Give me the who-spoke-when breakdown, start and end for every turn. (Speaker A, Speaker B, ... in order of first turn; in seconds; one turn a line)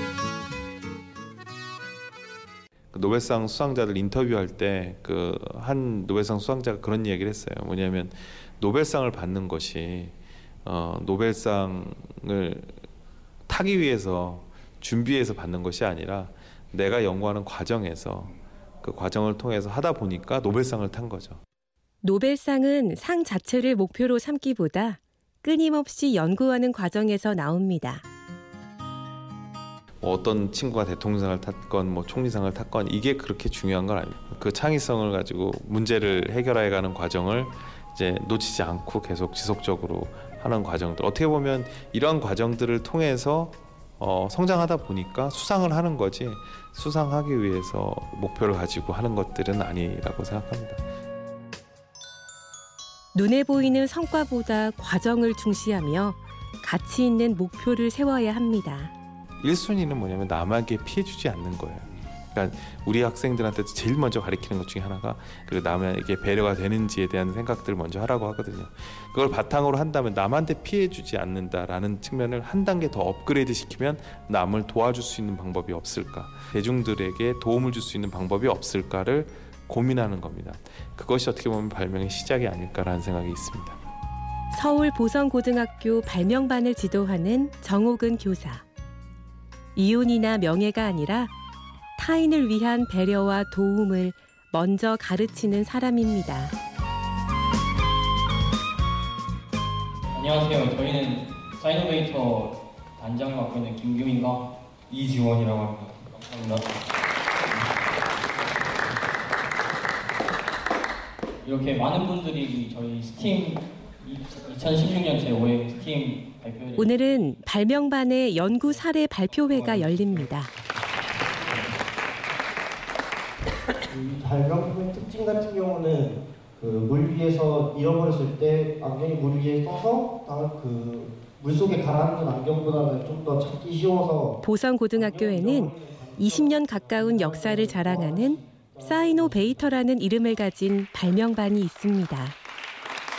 Speaker A: 2.9-12.8
Speaker A: 13.5-21.4
Speaker B: 22.0-28.0
Speaker A: 30.0-50.8
Speaker B: 53.1-58.9
Speaker A: 59.4-83.8
Speaker B: 84.5-88.6
Speaker B: 89.7-91.3
Speaker B: 92.0-96.5
Speaker C: 100.1-106.6
Speaker C: 111.4-117.0
Speaker B: 116.8-120.5
Speaker D: 123.9-139.5
Speaker B: 134.4-142.4